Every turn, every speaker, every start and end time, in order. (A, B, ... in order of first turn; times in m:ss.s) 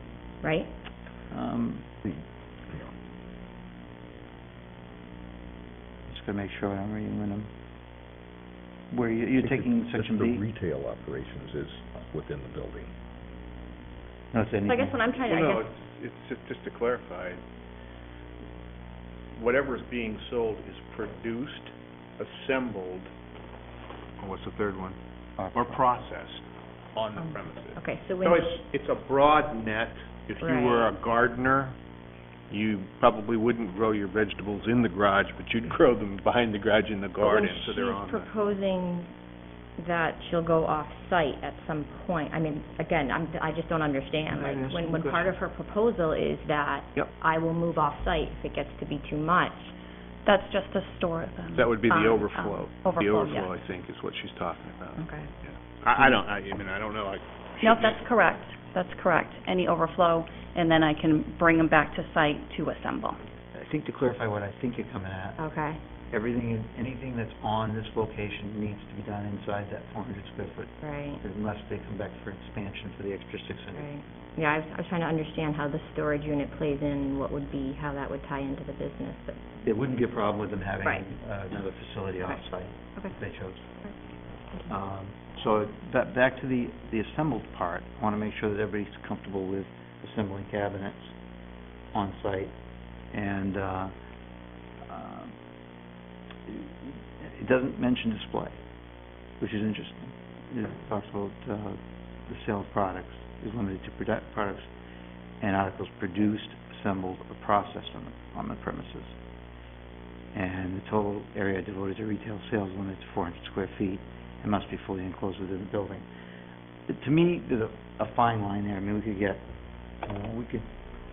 0:00.4-0:00.7 A
0:01.3-0:01.9 B
0:02.1-0:02.9 C
0:06.1-0:07.5 B
0:08.9-0:10.4 B
0:09.4-0:12.9 C
0:14.3-0:15.1 B
0:14.7-0:15.6 A
0:15.3-0:17.4 D
0:19.3-0:23.1 D
0:24.2-0:25.0 D
0:25.4-0:25.8 B
0:25.5-0:26.4 D
0:27.0-0:31.8 D
0:27.2-0:28.6 A
0:30.4-0:30.9 A
0:32.5-0:38.3 D
0:37.2-0:39.1 A
0:39.8-0:49.7 A
0:44.3-0:45.4 B
0:50.3-0:53.5 E
0:51.6-0:58.0 D
0:55.0-0:55.3 A
0:57.6-1:03.2 E
1:03.5-1:05.4 B
1:05.4-1:05.8 A
1:06.1-1:13.9 B
1:10.8-1:11.2 A
1:13.8-1:19.4 A
1:19.6-1:23.7 B
1:24.7-1:31.1 B
1:31.9-1:32.5 B
1:33.1-1:33.9 B
1:34.9-1:35.3 B
1:36.5-1:38.6 B
1:39.4-1:44.7 B
1:45.4-1:49.2 B
1:50.3-1:56.1 B
1:56.9-1:59.4 B
2:00.0-2:00.7 B